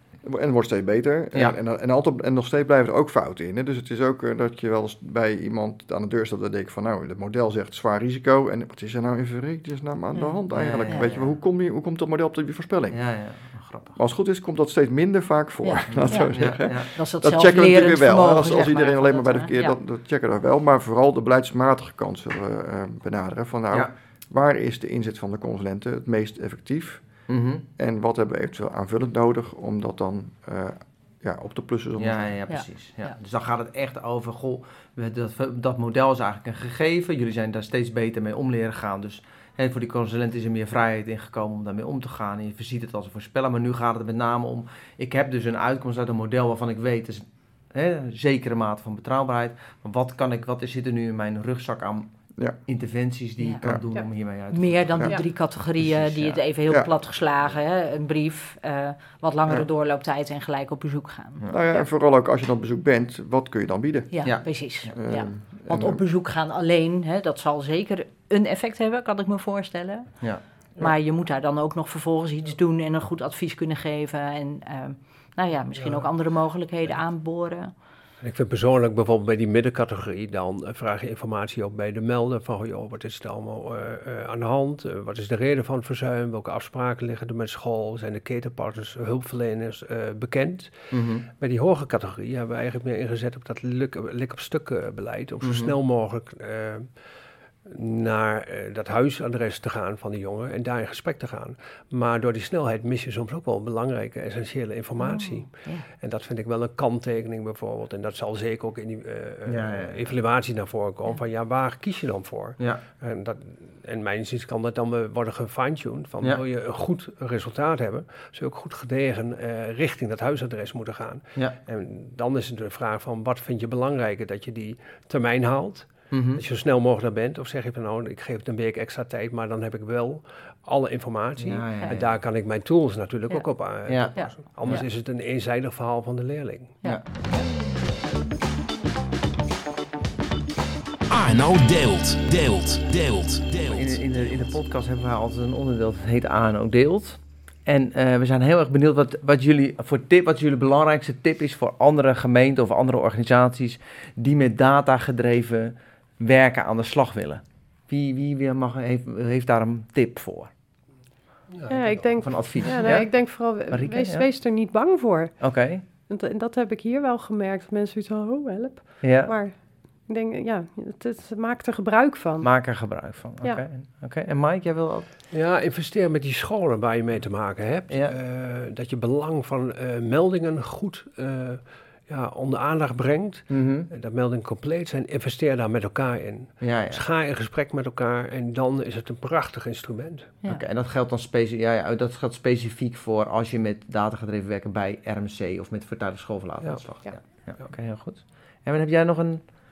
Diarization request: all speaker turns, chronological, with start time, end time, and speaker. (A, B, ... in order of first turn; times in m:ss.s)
0:00.2-0:13.0 A
0:10.1-0:11.1 B
0:10.5-0:11.4 C
0:12.9-0:14.0 C
0:14.0-0:27.0 A
0:15.6-0:19.8 B
0:15.9-0:16.9 C
0:27.3-0:27.6 C
0:27.8-0:32.3 A
0:32.0-0:52.1 C
0:32.5-0:33.1 B
0:52.7-0:55.2 C
0:54.5-1:01.4 B
1:01.5-1:04.3 A
1:04.1-1:17.7 B
1:04.9-1:06.0 A
1:18.2-1:37.0 D
1:30.9-1:31.3 C
1:35.4-1:35.7 C
1:37.6-2:16.8 D
1:45.0-1:45.8 B
1:49.5-1:50.0 C
2:06.1-2:06.4 C
2:11.4-2:12.0 C
2:13.9-2:14.8 C
2:14.1-2:14.8 B
2:21.1-2:24.4 E
2:23.7-2:40.5 C
2:41.5-2:42.1 D
2:41.7-2:52.5 F
2:42.2-2:44.3 C
2:42.6-2:42.9 D
2:45.4-2:45.8 C
2:49.0-2:49.3 C
2:52.4-2:55.2 C
2:55.3-3:10.3 D
2:57.9-2:58.1 C
3:03.5-3:03.9 C
3:06.6-3:07.0 C
3:10.4-3:19.4 C